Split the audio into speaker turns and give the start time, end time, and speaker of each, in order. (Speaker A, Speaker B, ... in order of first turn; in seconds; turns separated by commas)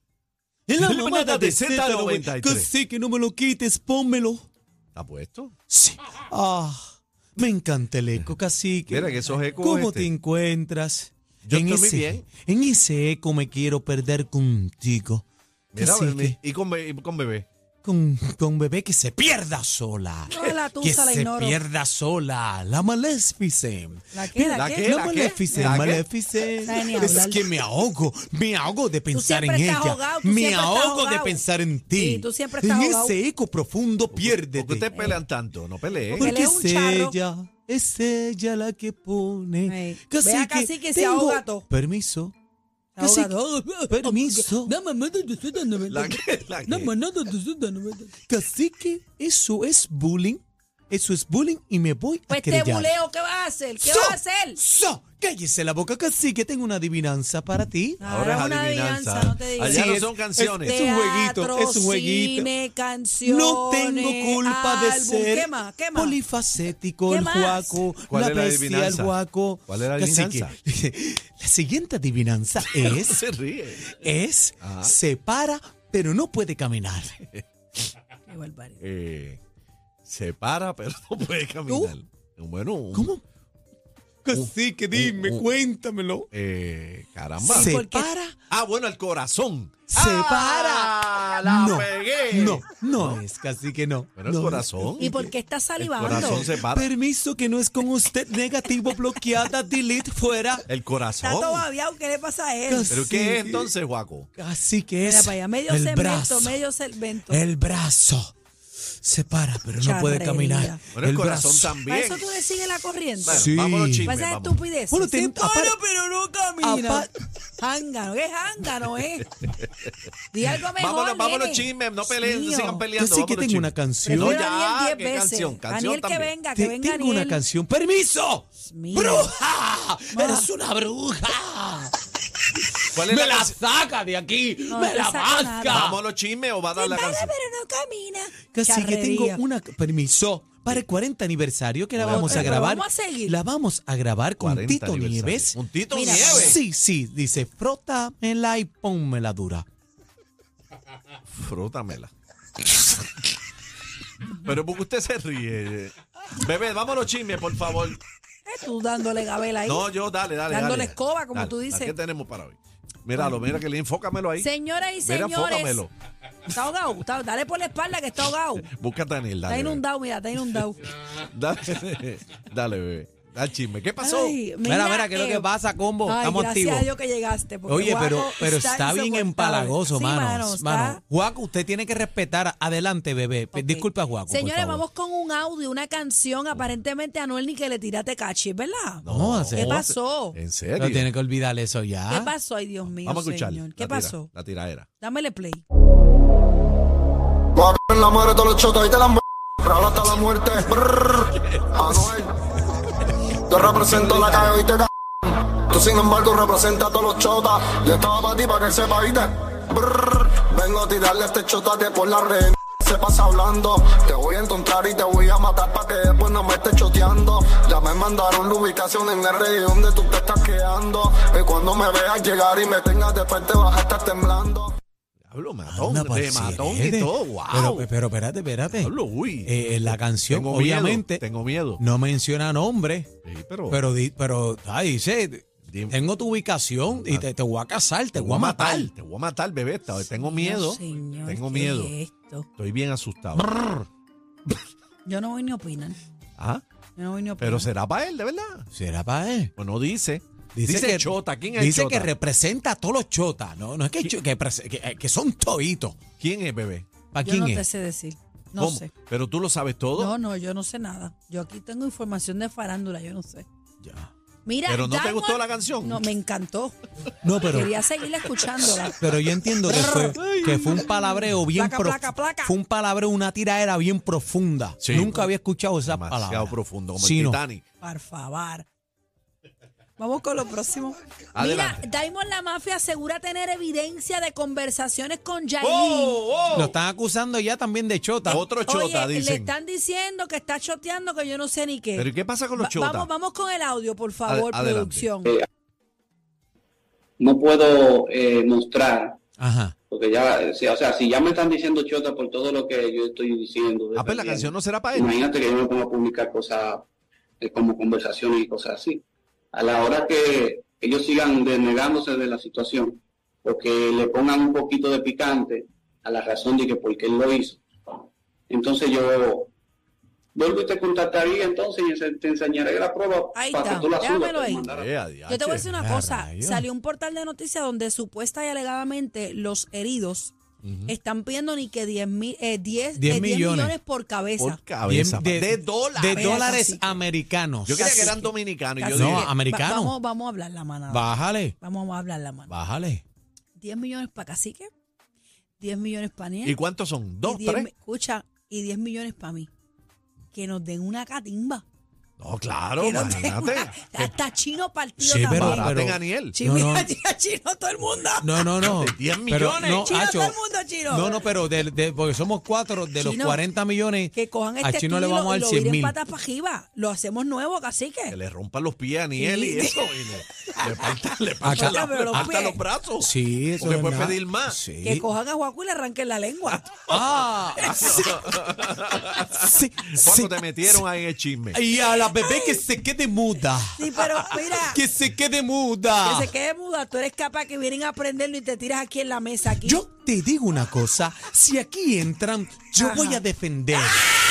Speaker A: 0.7-4.5, Speaker B: 0.8-2.7, Speaker B: 5.0-5.5, Speaker A: 5.7-15.2, Speaker B: 8.9-10.1, Speaker B: 11.4-12.2, Speaker B: 15.7-17.5, Speaker A: 15.8-16.4, Speaker A: 17.8-34.9, Speaker C: 20.3-21.6, Speaker C: 24.1-26.0, Speaker B: 24.5-26.1, Speaker C: 26.6-27.4, Speaker C: 29.1-33.2, Speaker B: 34.1-36.3, Speaker C: 36.1-37.1, Speaker A: 36.2-42.3, Speaker C: 39.6-41.6, Speaker C: 43.0-48.1, Speaker A: 43.0-43.3, Speaker A: 43.9-44.7, Speaker B: 45.9-46.9, Speaker A: 48.3-52.9, Speaker C: 52.3-54.6, Speaker A: 53.8-58.0, Speaker C: 58.0-60.0, Speaker B: 58.0-60.8, Speaker A: 59.6-62.5, Speaker C: 60.6-66.2, Speaker A: 63.2-73.2, Speaker C: 67.1-67.8, Speaker B: 68.1-69.2, Speaker B: 69.7-70.5, Speaker B: 72.7-73.9, Speaker A: 73.8-77.2, Speaker B: 74.6-74.9, Speaker C: 78.3-78.8, Speaker B: 78.8-79.4, Speaker B: 80.0-83.1, Speaker C: 81.7-81.9, Speaker A: 82.9-83.2, Speaker A: 84.2-86.3, Speaker B: 84.3-85.4, Speaker B: 86.3-87.7, Speaker C: 87.4-88.2, Speaker A: 87.5-88.3, Speaker B: 88.5-93.2, Speaker A: 89.9-95.3, Speaker B: 94.2-95.1, Speaker C: 95.0-96.4, Speaker B: 95.8-96.9, Speaker A: 96.0-100.6, Speaker B: 100.7-101.7, Speaker C: 101.2-103.0, Speaker A: 102.7-103.7, Speaker B: 102.9-104.3, Speaker A: 104.4-106.6, Speaker C: 105.0-107.4, Speaker A: 107.3-108.3, Speaker A: 109.0-111.7, Speaker C: 109.8-110.8, Speaker B: 111.0-112.3, Speaker C: 111.8-113.5, Speaker B: 113.2-114.6, Speaker A: 113.3-114.1, Speaker C: 114.0-117.1, Speaker A: 114.9-115.8, Speaker A: 116.6-117.1, Speaker C: 117.6-119.3, Speaker C: 120.3-122.8, Speaker B: 120.8-126.3, Speaker A: 123.0-124.4, Speaker C: 124.0-127.4, Speaker A: 126.5-131.9, Speaker C: 128.6-129.3, Speaker C: 130.1-130.5, Speaker B: 132.9-133.6, Speaker A: 132.9-136.0, Speaker C: 134.6-135.9, Speaker B: 135.7-137.3, Speaker C: 136.7-139.4, Speaker A: 138.5-145.6, Speaker B: 142.0-142.6, Speaker C: 142.1-143.4, Speaker B: 144.4-146.6, Speaker C: 145.9-146.6, Speaker A: 146.1-149.6, Speaker B: 151.3-152.1, Speaker B: 154.4-158.0, Speaker C: 158.4-159.9, Speaker B: 159.6-164.5, Speaker C: 160.5-161.9, Speaker C: 163.2-163.4, Speaker C: 164.4-165.8, Speaker B: 165.0-165.9, Speaker C: 166.5-168.7, Speaker B: 168.7-169.8, Speaker C: 169.5-170.9, Speaker B: 171.3-174.4, Speaker C: 174.0-175.5, Speaker A: 174.6-176.9, Speaker C: 176.0-181.0, Speaker A: 177.7-184.8, Speaker C: 183.5-190.4, Speaker B: 189.0-191.1, Speaker A: 189.0-189.7, Speaker A: 190.8-192.3, Speaker C: 192.1-194.3, Speaker B: 192.8-194.9, Speaker C: 195.0-195.6, Speaker D: 197.6-202.3, Speaker D: 203.5-224.7, Speaker B: 225.3-227.9, Speaker A: 225.7-228.9, Speaker B: 228.8-229.5, Speaker A: 229.4-231.2, Speaker B: 230.3-231.8, Speaker A: 231.8-233.1, Speaker B: 233.2-233.8, Speaker A: 233.7-238.9, Speaker B: 235.7-236.0, Speaker B: 236.9-237.2, Speaker B: 238.1-241.9, Speaker C: 240.3-242.4, Speaker B: 242.6-243.6, Speaker C: 245.0-246.0, Speaker B: 246.4-246.6, Speaker C: 247.0-247.7, Speaker B: 247.4-248.7, Speaker A: 248.8-249.5, Speaker B: 249.6-252.1, Speaker A: 250.6-256.0, Speaker B: 256.2-256.9, Speaker A: 257.1-257.6, Speaker C: 257.2-258.9, Speaker B: 258.6-260.1, Speaker C: 260.0-263.4, Speaker A: 263.8-264.1, Speaker C: 264.4-266.8, Speaker B: 264.6-266.0, Speaker A: 267.2-267.8, Speaker C: 267.4-269.0, Speaker A: 269.0-277.4, Speaker C: 269.6-272.5, Speaker B: 274.8-275.1, Speaker B: 275.8-277.6, Speaker C: 277.8-278.6, Speaker C: 280.0-286.2, Speaker B: 281.3-281.8, Speaker B: 285.6-286.7, Speaker A: 286.5-288.4, Speaker B: 288.3-289.5, Speaker C: 288.6-295.3, Speaker B: 291.9-293.1, Speaker B: 294.2-295.1, Speaker E: 297.2-299.2, Speaker A: 299.4-299.7, Speaker E: 299.9-306.9, Speaker B: 304.0-305.2, Speaker E: 307.4-317.6, Speaker E: 318.5-319.5, Speaker E: 320.3-324.9, Speaker C: 323.3-324.6, Speaker B: 324.7-325.7, Speaker C: 325.3-330.3, Speaker A: 325.8-326.6, Speaker B: 330.6-330.9, Speaker C: 330.9-334.6, Speaker A: 332.9-333.7, Speaker B: 334.4-336.4, Speaker A: 334.9-338.1, Speaker C: 336.1-337.0, Speaker B: 337.6-339.3, Speaker C: 337.8-342.5, Speaker A: 338.9-339.9, Speaker A: 340.9-341.5, Speaker A: 342.5-343.0, Speaker C: 343.6-344.7, Speaker C: 345.6-346.6, Speaker B: 346.4-347.7, Speaker C: 347.2-349.5, Speaker C: 350.3-351.6, Speaker B: 352.2-354.1, Speaker C: 352.8-355.7, Speaker A: 355.0-356.9, Speaker B: 355.2-356.4, Speaker C: 356.3-358.5, Speaker A: 358.2-360.4, Speaker B: 358.6-359.8, Speaker C: 359.8-361.2, Speaker A: 360.9-365.9, Speaker C: 362.9-363.4, Speaker C: 364.1-368.2, Speaker B: 368.1-374.6, Speaker C: 369.2-370.8, Speaker A: 371.4-372.4, Speaker C: 371.4-372.6, Speaker A: 373.0-375.1, Speaker C: 374.8-376.9, Speaker A: 376.9-378.0, Speaker C: 377.6-378.1, Speaker B: 377.7-381.6, Speaker A: 379.3-380.3, Speaker A: 381.5-386.3, Speaker C: 382.1-382.6, Speaker C: 383.8-384.8, Speaker C: 386.0-389.8, Speaker A: 389.6-394.1, Speaker C: 392.8-393.2